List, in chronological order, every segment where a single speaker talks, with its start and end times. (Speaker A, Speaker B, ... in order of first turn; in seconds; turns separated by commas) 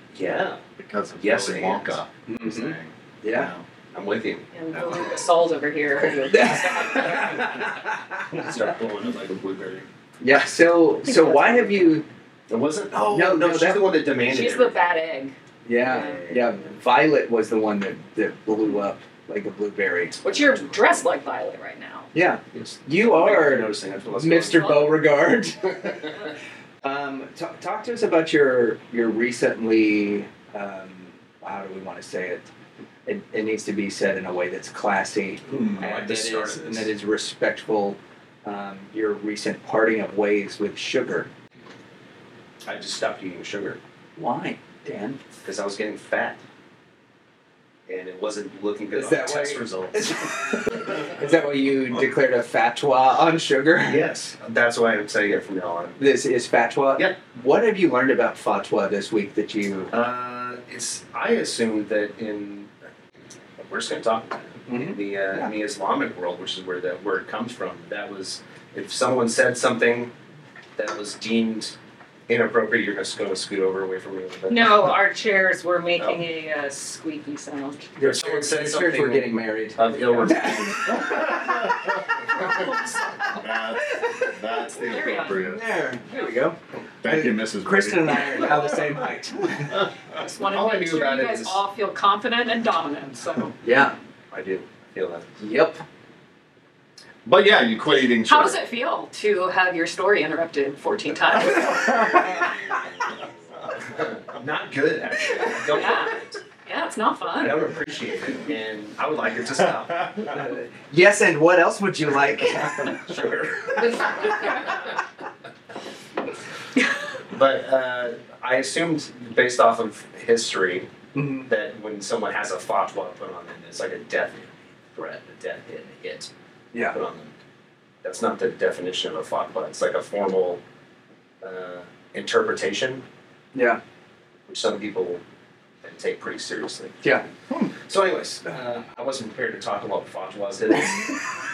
Speaker A: 0.1-0.6, Speaker B: 0.8-3.6, Speaker A: 1.2-2.0, Speaker C: 2.3-3.5, Speaker A: 3.9-5.0, Speaker D: 4.5-7.7, Speaker C: 6.3-8.5, Speaker A: 8.3-9.8, Speaker C: 10.2-12.1, Speaker D: 11.1-11.7, Speaker A: 12.5-14.9, Speaker C: 13.1-13.9, Speaker D: 14.2-15.3, Speaker C: 15.7-20.6, Speaker A: 15.9-16.4, Speaker D: 20.2-22.1, Speaker C: 22.1-25.9, Speaker A: 22.5-25.1, Speaker A: 25.7-26.1, Speaker C: 26.8-32.5, Speaker C: 33.0-41.3, Speaker A: 35.6-36.9, Speaker A: 42.6-43.8, Speaker C: 44.2-45.2, Speaker A: 45.4-46.4, Speaker A: 47.9-50.1, Speaker C: 48.9-54.1, Speaker A: 53.8-56.0, Speaker C: 56.0-59.9, Speaker A: 59.9-62.7, Speaker A: 63.6-70.1, Speaker C: 64.7-65.5, Speaker A: 70.8-71.8, Speaker A: 72.3-75.0, Speaker D: 74.5-77.9, Speaker C: 78.0-81.4, Speaker A: 78.0-81.2, Speaker D: 82.3-83.4, Speaker B: 83.3-85.6, Speaker D: 84.8-85.5, Speaker C: 85.4-89.7, Speaker B: 87.0-88.6, Speaker D: 90.1-93.6, Speaker A: 90.4-91.6, Speaker C: 93.6-94.0, Speaker A: 94.3-95.3, Speaker C: 95.4-95.8, Speaker B: 97.2-98.6, Speaker D: 98.1-102.4, Speaker A: 103.9-106.4, Speaker D: 105.7-107.7, Speaker A: 107.4-110.3, Speaker C: 110.3-113.0, Speaker A: 112.8-114.8, Speaker A: 117.3-120.9, Speaker C: 121.1-121.5, Speaker A: 121.5-126.3, Speaker A: 126.9-127.3, Speaker A: 128.0-130.6, Speaker A: 131.4-133.0, Speaker C: 133.5-133.8, Speaker A: 134.5-135.2, Speaker A: 135.8-137.0, Speaker A: 137.8-141.2